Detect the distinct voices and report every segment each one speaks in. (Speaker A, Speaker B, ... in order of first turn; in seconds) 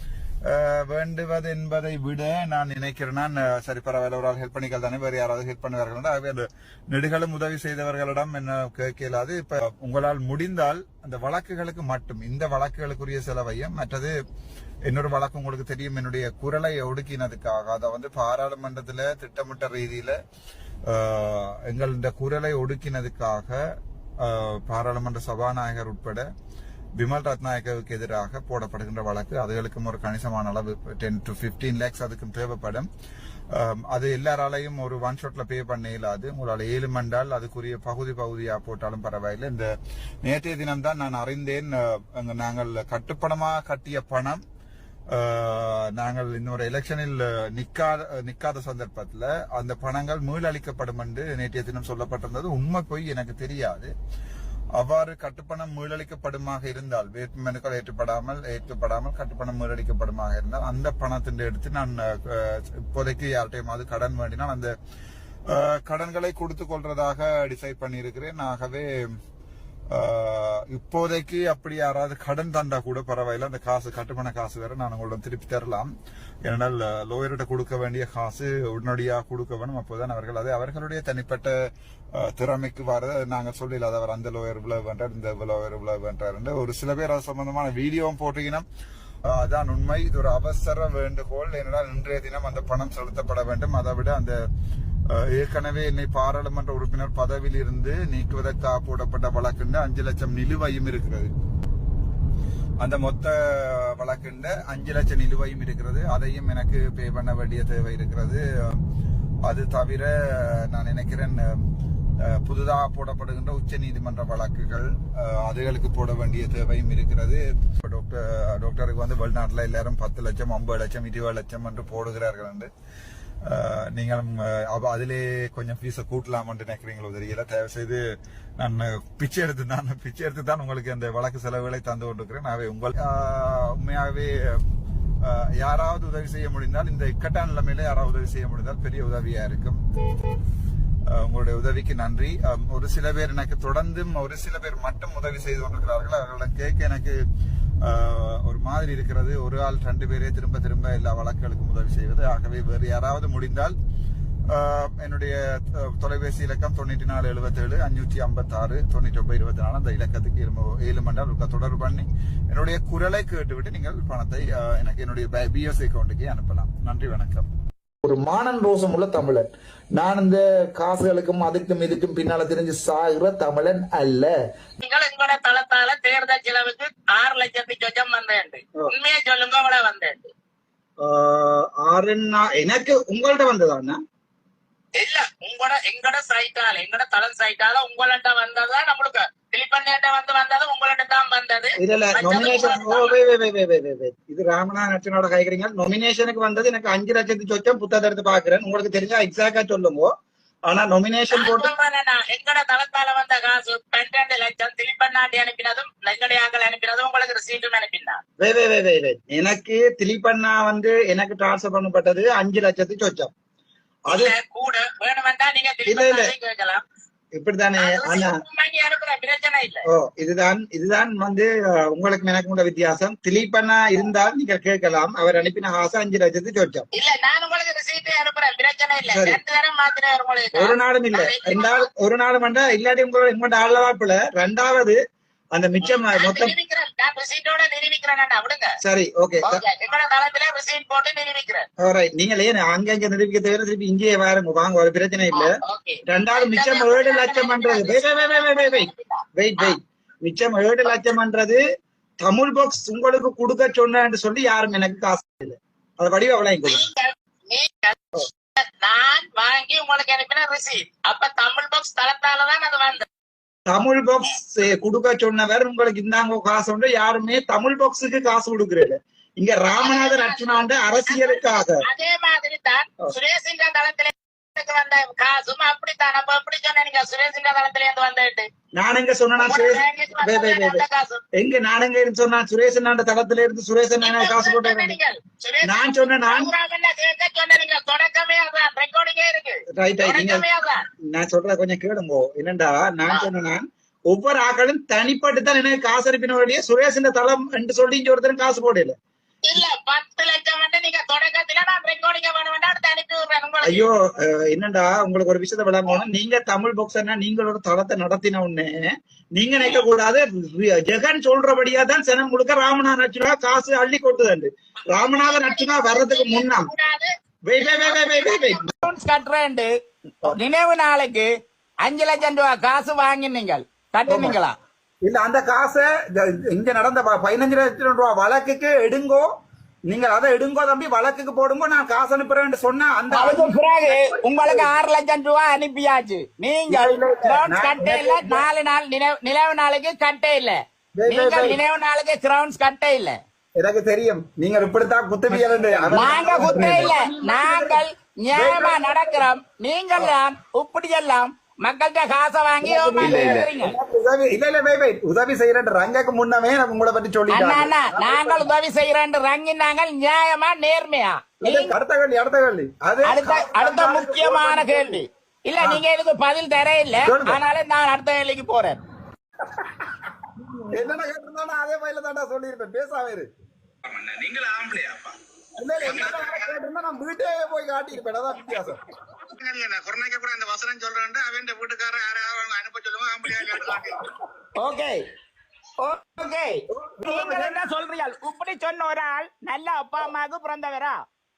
Speaker A: 0.5-14.2, 14.9-20.2, 20.9-23.6, 24.2-26.2, 27.0-32.9, 33.5-39.7, 40.2-44.4, 45.1-53.9, 54.8-64.7, 65.5-68.9, 69.9-75.9, 76.5-81.5, 82.2-88.6, 89.3-94.4, 95.1-101.3, 102.8-108.8, 109.4-111.6, 112.2-122.7, 123.4-128.0, 128.6-134.6, 135.2-139.8, 141.1-147.2, 147.8-153.7, 154.5-167.4, 168.0-169.4, 170.0-174.3, 181.1-181.5, 325.1-325.9, 326.5-329.2, 329.9-333.5, 334.1-334.7, 336.7-338.4, 341.1-341.5, 343.6-347.7, 348.4-348.8, 352.6-353.5, 357.5-358.4, 361.5-365.0, 367.1-367.4, 370.7-373.3, 375.6-378.8, 386.8-387.6
Speaker B: 174.8-180.3, 184.9-193.2, 201.3-208.2, 214.1-216.8, 217.8-219.8, 226.9-231.9, 235.8-238.7, 239.4-241.7, 245.3-249.8, 256.6-258.0, 258.6-263.1, 269.7-278.5, 279.4-281.2, 284.0-290.8, 299.4-303.9, 314.9-319.7, 320.3-321.3, 321.8-324.6, 333.1-343.1, 345.9-353.7, 357.3-361.8, 363.0-368.8, 375.8-376.2, 384.6-385.0, 385.8-391.0
Speaker C: 181.2-184.0, 191.8-200.1, 200.7-201.7, 208.4-213.3, 215.8-216.3, 217.4-218.4, 219.9-226.8, 230.5-234.9, 235.5-236.5, 238.8-239.6, 241.8-245.5, 246.1-251.6, 252.2-256.9, 263.7-271.8, 278.8-280.8, 281.4-284.9, 285.6-286.5, 289.8-290.4, 291.1-298.9, 303.6-308.8, 309.4-316.7, 317.5-318.8, 327.1-327.8, 333.1-333.4, 336.8-338.2, 345.3-347.0, 353.0-357.6, 375.8-376.5, 380.7-384.0
Speaker D: 373.9-375.1, 375.9-376.5, 379.4-383.5